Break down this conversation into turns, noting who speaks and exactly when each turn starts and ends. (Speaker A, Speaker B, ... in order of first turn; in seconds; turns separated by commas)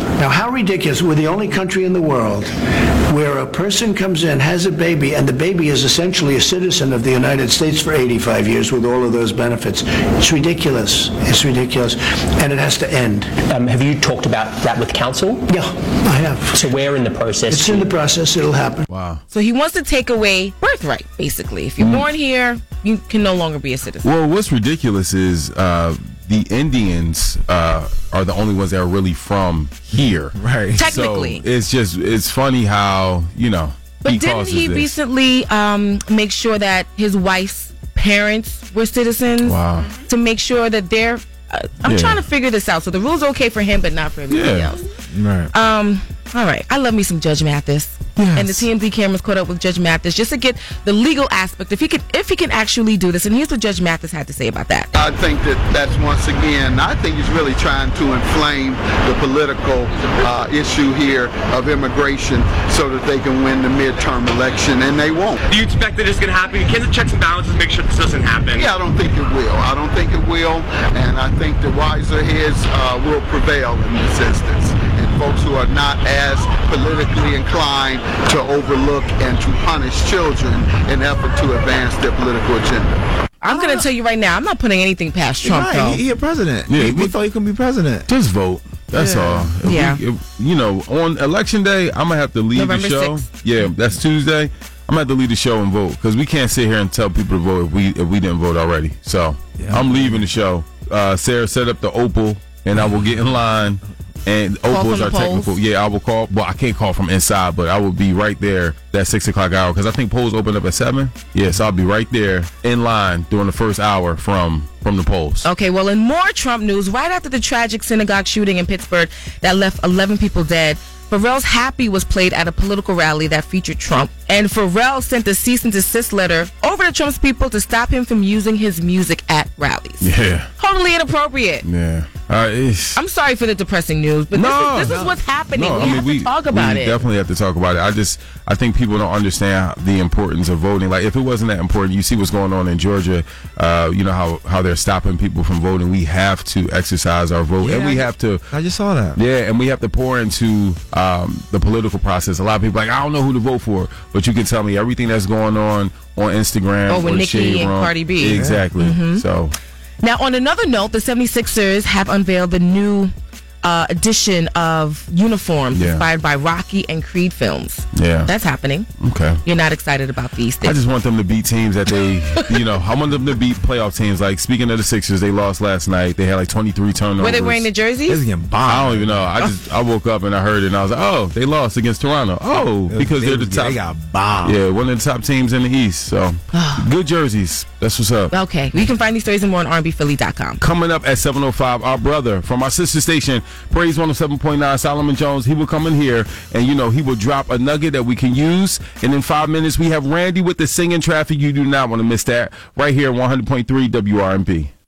Speaker A: 0.2-2.5, Speaker A: 3.1-13.4, Speaker B: 13.4-15.7, Speaker A: 16.0-16.8, Speaker B: 16.5-17.9, Speaker A: 17.5-18.8, Speaker C: 18.9-19.2, Speaker D: 19.3-24.1, Speaker C: 21.8-22.1, Speaker C: 24.0-35.0, Speaker E: 30.3-30.9, Speaker D: 30.7-31.4, Speaker D: 34.0-44.8, Speaker C: 39.4-40.0, Speaker C: 41.8-42.2, Speaker C: 44.3-44.8, Speaker E: 45.1-45.5, Speaker D: 45.5-55.0, Speaker E: 48.2-48.6, Speaker F: 55.0-65.4, Speaker G: 65.5-68.7, Speaker F: 68.5-82.9, Speaker D: 83.4-86.0, Speaker E: 83.5-83.8, Speaker E: 85.4-88.1, Speaker C: 86.7-87.2, Speaker C: 88.1-115.5, Speaker E: 88.9-89.5, Speaker D: 89.6-90.0, Speaker D: 92.5-93.3, Speaker E: 99.6-100.2, Speaker D: 104.6-105.6, Speaker D: 115.4-131.6, Speaker C: 130.0-130.5, Speaker C: 131.6-133.0, Speaker D: 132.9-137.0, Speaker C: 134.3-148.4, Speaker E: 147.6-149.2, Speaker C: 149.2-159.5, Speaker D: 156.9-159.2, Speaker E: 158.3-158.7, Speaker D: 160.0-168.9, Speaker C: 165.7-166.1, Speaker C: 167.9-168.3, Speaker C: 169.0-169.4, Speaker D: 169.4-170.8, Speaker C: 170.6-177.7, Speaker D: 177.2-178.2, Speaker E: 178.1-179.3, Speaker C: 178.6-183.8, Speaker E: 182.8-184.6, Speaker C: 184.4-188.3, Speaker D: 186.5-186.9, Speaker D: 188.3-190.6, Speaker C: 190.6-204.7